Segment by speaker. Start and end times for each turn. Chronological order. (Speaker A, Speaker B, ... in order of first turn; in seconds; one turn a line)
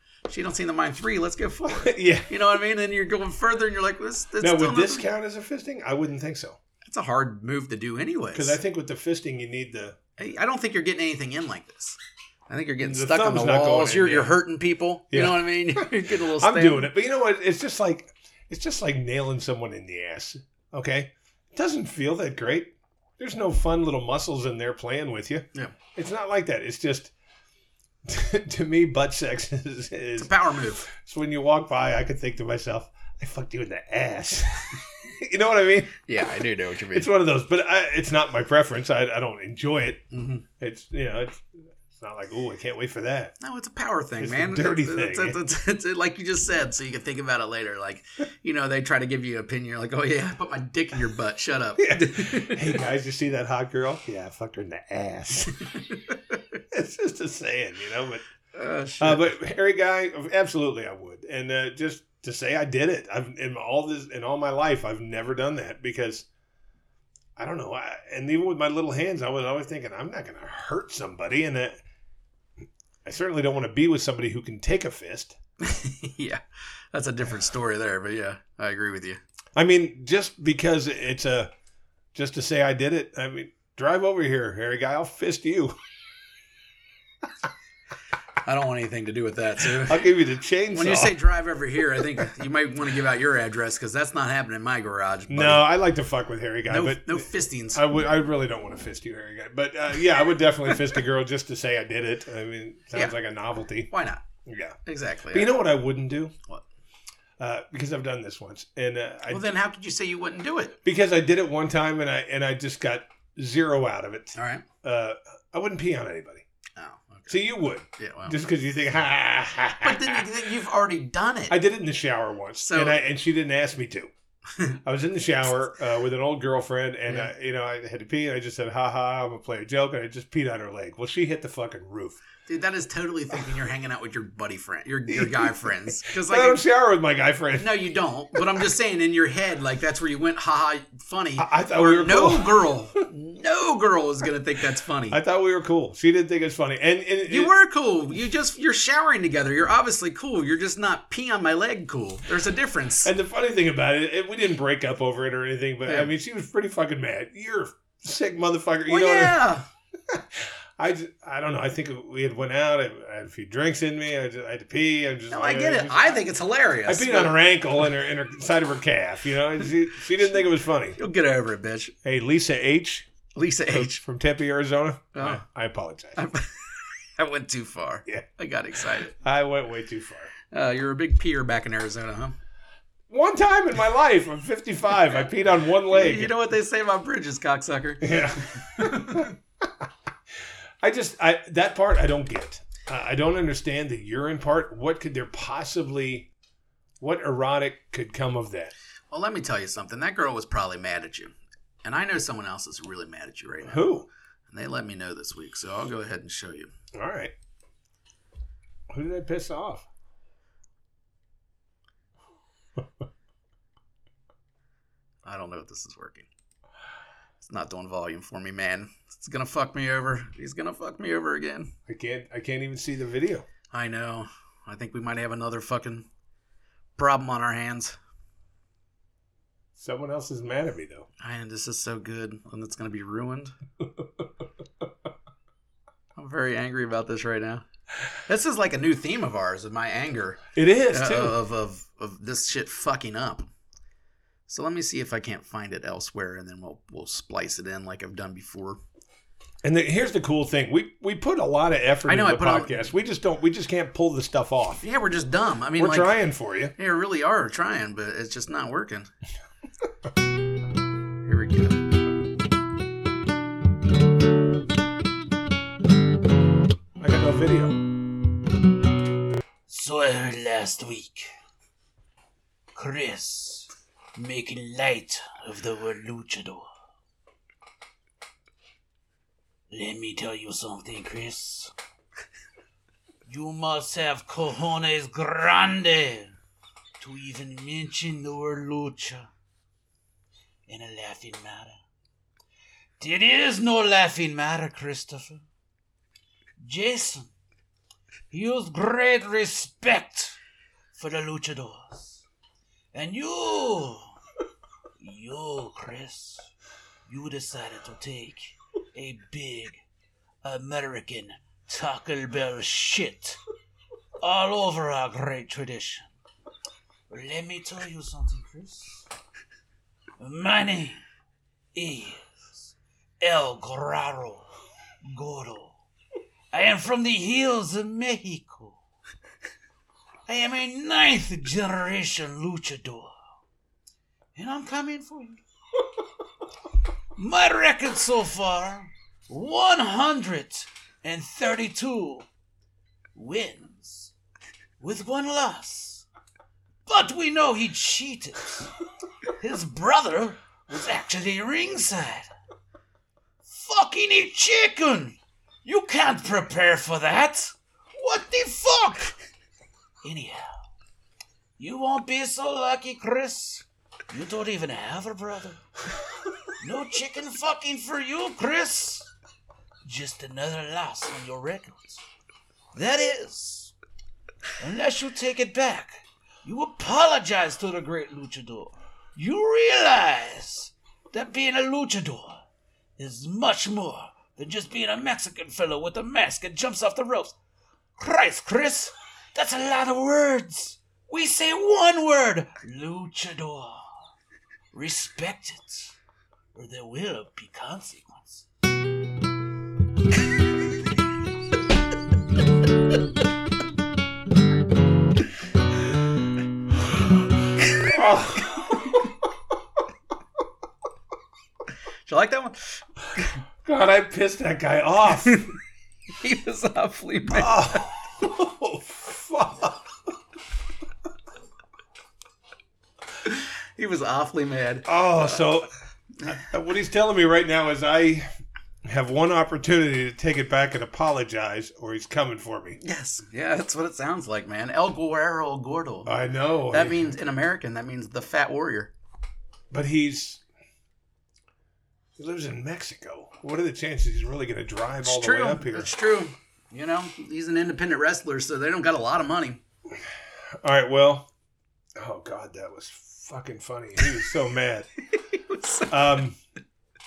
Speaker A: 0.3-5.1
Speaker B: 1.6-2.3
Speaker B: 4.4-6.6
Speaker A: 6.8-8.6
Speaker B: 8.3-10.0
Speaker A: 10.2-12.0
Speaker A: 12.5-16.9
Speaker B: 12.8-14.3
Speaker B: 15.1-27.1
Speaker B: 28.1-30.3
Speaker A: 30.2-30.8
Speaker B: 30.8-36.0
Speaker A: 36.1-37.1
Speaker B: 36.9-40.0
Speaker A: 40.1-40.4
Speaker B: 40.6-43.4
Speaker A: 43.4-52.8
Speaker B: 44.2-45.4
Speaker B: 51.8-55.5
Speaker A: 55.8-56.4
Speaker B: 56.7-58.2
Speaker A: 58.5-59.3
Speaker B: 59.0-66.3
Speaker B: 67.4-71.8
Speaker B: 73.0-75.4
Speaker A: 75.6-76.4
Speaker A: 76.9-79.2
Speaker B: 79.6-81.5
Speaker B: 82.1-85.8
Speaker A: 88.5-90.0
Speaker B: 89.8-91.2
Speaker A: 90.7-95.7
Speaker B: 95.3-103.9
Speaker A: 96.7-97.8
Speaker A: 103.9-104.2
Speaker B: 104.5-104.8
Speaker A: 104.9-105.6
Speaker B: 105.3-106.3
Speaker B: 107.4-109.5
Speaker A: 109.3-110.8
Speaker B: 110.8-116.4
Speaker A: 114.3-114.6
Speaker A: 116.8-117.4
Speaker B: 117.3-120.3
Speaker A: 118.0-118.4
Speaker A: 119.8-121.6
Speaker B: 121.5-124.1
Speaker A: 122.6-123.0
Speaker B: 124.8-132.2
Speaker A: 132.5-136.6
Speaker B: 135.1-137.7
Speaker A: 137.6-145.2
Speaker B: 141.4-142.6
Speaker B: 145.1-147.5
Speaker A: 147.3-153.1
Speaker B: 153.0-159.4
Speaker A: 158.9-159.7
Speaker B: 160.1-166.2
Speaker A: 165.3-167.4
Speaker B: 166.9-171.0
Speaker A: 171.0-171.9
Speaker B: 172.0-173.1
Speaker A: 173.3-174.0
Speaker B: 173.7-176.2
Speaker A: 175.2-175.4
Speaker A: 176.2-179.1
Speaker B: 179.1-180.3
Speaker A: 180.5-182.4
Speaker B: 183.1-186.3
Speaker A: 185.9-189.3
Speaker B: 188.0-189.7
Speaker B: 190.8-196.3
Speaker B: 197.0-198.7
Speaker A: 199.1-203.9
Speaker B: 203.7-204.1
Speaker A: 204.5-206.7
Speaker B: 206.9-207.3
Speaker B: 208.9-209.9
Speaker A: 215.2-216.3
Speaker A: 217.5-221.7
Speaker B: 221.9-223.5
Speaker A: 223.7-226.1
Speaker A: 227.0-228.0
Speaker B: 229.8-231.1
Speaker A: 231.2-233.5
Speaker A: 236.2-237.7
Speaker A: 238.3-243.5
Speaker B: 240.5-241.4
Speaker A: 244.5-248.8
Speaker B: 249.6-254.8
Speaker A: 252.1-252.8
Speaker A: 254.8-256.2
Speaker B: 255.8-256.7
Speaker A: 256.8-259.1
Speaker A: 261.2-261.8
Speaker B: 267.0-267.8
Speaker C: 269.7-271.3
Speaker C: 272.8-276.7
Speaker C: 279.7-281.7
Speaker C: 283.3-286.4
Speaker C: 287.0-289.3
Speaker C: 290.7-291.8
Speaker C: 293.0-295.4
Speaker C: 296.6-297.3
Speaker C: 298.3-300.4
Speaker C: 300.9-302.2
Speaker C: 302.9-304.1
Speaker C: 305.0-306.5
Speaker C: 307.1-309.8
Speaker C: 310.4-313.4
Speaker C: 314.2-316.1
Speaker C: 317.1-319.1
Speaker C: 320.2-321.0
Speaker C: 321.8-324.5
Speaker C: 325.1-325.8
Speaker C: 326.5-328.8
Speaker C: 330.3-333.1
Speaker C: 334.4-335.4
Speaker C: 337.2-342.3
Speaker C: 343.1-344.1
Speaker C: 344.8-346.1
Speaker C: 346.9-348.7
Speaker C: 349.4-352.3
Speaker C: 353.5-359.1
Speaker C: 360.0-360.5
Speaker C: 361.6-365.6
Speaker C: 366.6-369.1
Speaker C: 369.9-372.0
Speaker C: 372.7-373.7
Speaker C: 374.6-382.4
Speaker C: 383.0-387.4
Speaker C: 388.0-393.9
Speaker C: 394.7-395.9
Speaker C: 396.5-398.4
Speaker B: 407.9-409.0
Speaker A: 412.1-413.3
Speaker B: 413.6-415.5
Speaker A: 416.2-417.9
Speaker B: 417.3-419.9
Speaker A: 423.8-425.5
Speaker B: 424.9-425.7
Speaker B: 426.3-428.3
Speaker B: 428.9-432.8
Speaker A: 432.8-436.1
Speaker B: 436.1-437.1
Speaker A: 436.7-438.9
Speaker B: 439.7-440.4
Speaker B: 442.2-445.9
Speaker A: 445.0-449.6
Speaker B: 450.6-451.3
Speaker B: 452.0-454.9
Speaker A: 455.3-455.9
Speaker B: 455.9-456.4